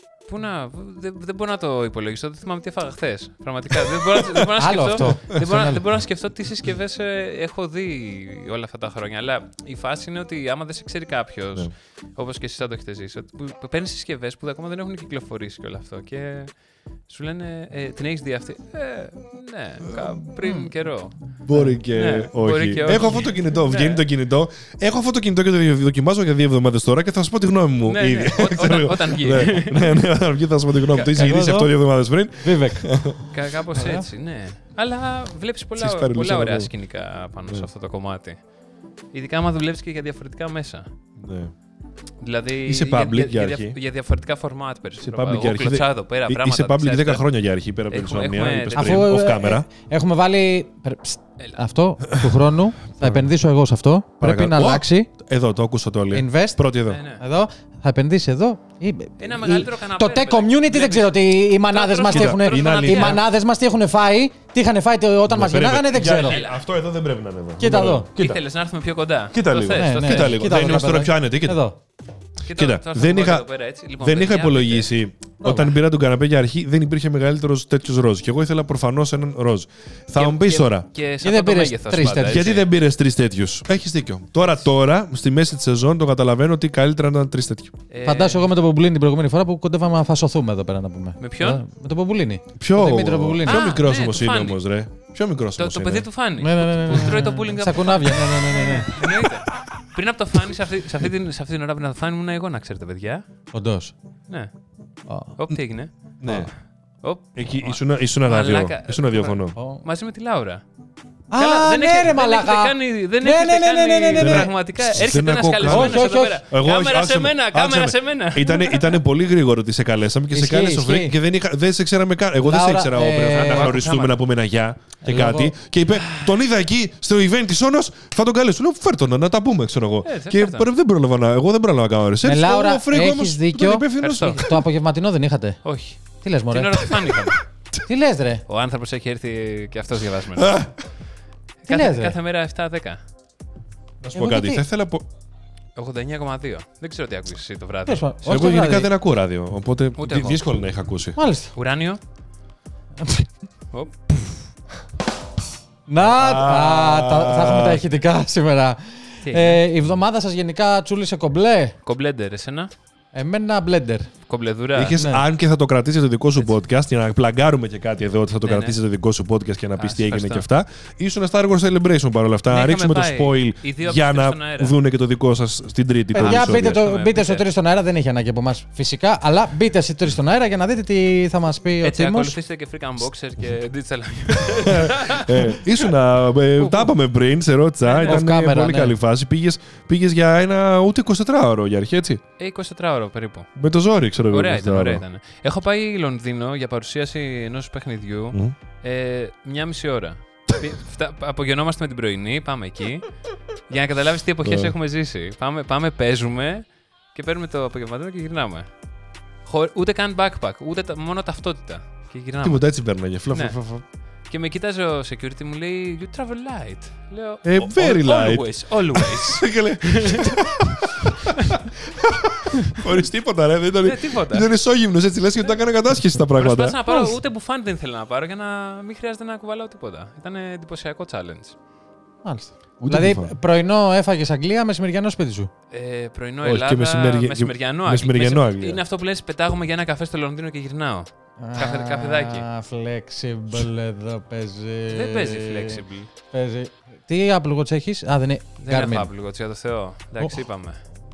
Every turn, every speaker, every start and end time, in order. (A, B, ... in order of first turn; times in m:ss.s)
0:00.3-0:16.5 A
0:04.2-0:04.5 B
0:04.6-0:05.8 C
0:17.1-0:21.4 A
0:20.4-0:20.7 C
0:21.4-0:33.2 B
0:21.9-0:24.0 A
0:27.9-0:30.0 A
0:31.0-0:31.7 C
0:32.4-0:32.9 C
0:33.3-0:38.4 A
0:33.8-0:34.1 C
0:35.8-0:36.7 B
0:39.1-0:40.9 A
0:41.2-0:41.5 B
0:42.2-0:47.2 A
0:42.7-0:43.8 B
0:45.0-0:49.7 B
0:47.9-0:49.1 A
0:48.8-0:55.1 C
0:53.0-0:53.3 B
0:54.2-0:57.0 B
0:56.1-1:06.4 C
0:56.9-0:57.2 A
0:59.2-1:03.2 A
1:02.1-1:03.2 B
1:05.3-1:08.4 B
1:06.2-1:06.6 A
1:07.6-1:08.1 C
1:08.2-1:10.4 A
1:09.3-1:11.6 B
1:09.8-1:11.8 C
1:12.5-1:14.9 A
1:12.5-1:13.5 B
1:14.0-1:20.9 B
1:15.4-1:15.8 C
1:20.2-1:22.7 A
1:21.2-1:22.5 C
1:22.3-1:27.7 B
1:27.9-1:28.5 A
1:28.0-1:33.7 C
1:31.2-1:31.6 A
1:32.6-1:36.1 B
1:33.4-1:34.6 A
1:35.6-1:43.2 A
1:36.4-1:39.0 C
1:43.5-1:43.9 C
1:45.1-1:45.3 C
1:45.4-1:46.5 A
1:46.2-1:46.5 B
1:47.0-1:50.6 A
1:47.4-1:49.6 B
1:49.6-1:49.8 C
1:51.3-1:54.5 C
1:51.4-1:59.0 A
1:54.2-2:14.6 B
1:55.7-1:56.4 C
2:00.3-2:01.2 C
2:02.4-2:03.8 C
2:03.3-2:04.2 A
2:05.0-2:05.6 C
2:05.9-2:06.3 A
2:10.0-2:10.7 A
2:12.2-2:15.6 C
2:14.0-2:14.4 A
2:15.6-2:17.4 A
2:16.2-2:16.9 C
2:17.9-2:18.4 C
2:18.5-2:20.6 A
2:20.4-2:20.7 B
2:21.6-2:23.0 A
2:21.7-2:22.2 C
2:24.0-2:25.0 B
2:24.2-2:24.6 C
2:25.8-2:28.0 A
2:27.9-2:28.9 C
2:28.2-2:31.2 B
2:30.0-2:30.4 A
2:31.2-2:31.5 C
2:31.6-2:32.0 A
2:33.0-2:33.3 C
2:35.9-2:41.7 C
2:36.0-2:37.8 B
2:39.2-2:39.6 A
2:41.8-2:42.7 A
2:43.1-2:44.1 C
2:44.3-2:45.0 A
2:44.8-2:56.8 B
2:44.9-2:45.2 C
2:48.4-2:48.8 A
2:49.8-2:50.5 A
2:52.5-2:54.8 A
2:56.1-3:02.4 C
2:56.2-2:57.4 A
3:01.8-3:05.9 A
3:04.6-3:12.2 B
3:06.6-3:06.9 A
3:07.8-3:08.2 A
3:08.1-3:09.0 C
3:12.4-3:13.5 A
3:13.6-3:15.0 B
3:14.3-3:23.1 A
3:23.7-3:28.7 A
3:24.4-3:24.7 B
3:29.5-3:32.6 A
3:32.4-3:33.8 B
3:33.3-3:33.6 A
3:34.3-3:41.6 A
3:37.4-3:46.8 B
3:43.8-3:44.5 A
3:46.4-3:51.6 A
3:46.9-3:47.1 C
3:52.2-3:55.5 C
3:52.8-3:53.3 B
3:55.7-4:02.5 A
3:56.4-3:58.8 B
4:01.4-4:09.1 C
4:04.9-4:06.1 A
4:08.6-4:10.8 A